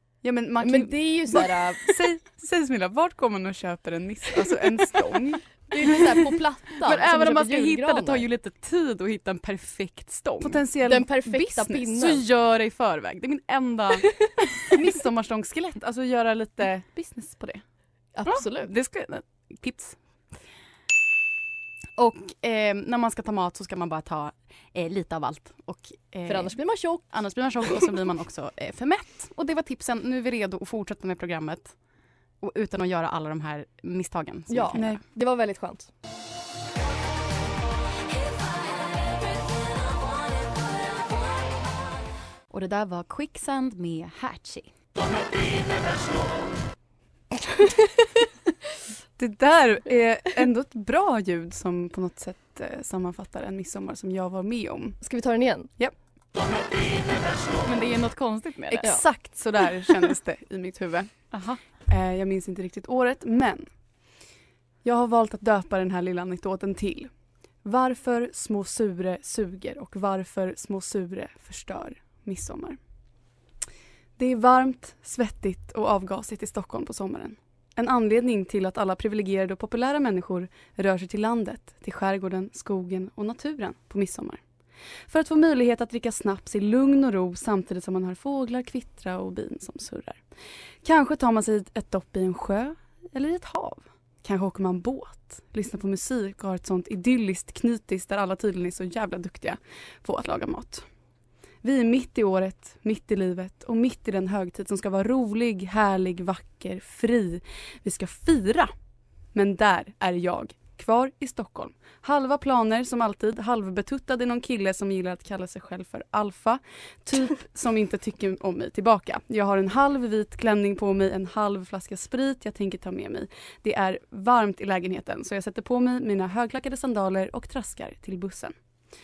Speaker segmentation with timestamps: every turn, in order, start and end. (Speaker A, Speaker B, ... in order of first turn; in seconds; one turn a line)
Speaker A: 0.2-5.5
Speaker B: 0.6-2.0
Speaker B: 5.7-8.3
Speaker C: 6.8-10.6
Speaker A: 10.4-12.0
Speaker B: 10.8-12.2
Speaker C: 12.0-14.1
Speaker A: 14.7-17.6
Speaker B: 18.1-18.7
Speaker C: 18.3-20.0
Speaker C: 22.0-31.8
Speaker B: 26.3-27.1
Speaker C: 32.4-35.0
Speaker B: 34.5-35.9
Speaker C: 42.5-44.7
Speaker A: 49.2-55.0
Speaker B: 55.0-55.7
Speaker C: 57.6-58.9
Speaker A: 58.7-61.2
Speaker C: 61.3-61.6
Speaker A: 61.9-63.7
Speaker A: 64.8-67.1
Speaker A: 67.6-72.8
Speaker A: 74.2-84.4
Speaker A: 85.1-90.2
Speaker A: 90.8-100.8
Speaker A: 101.6-108.7
Speaker A: 109.3-128.5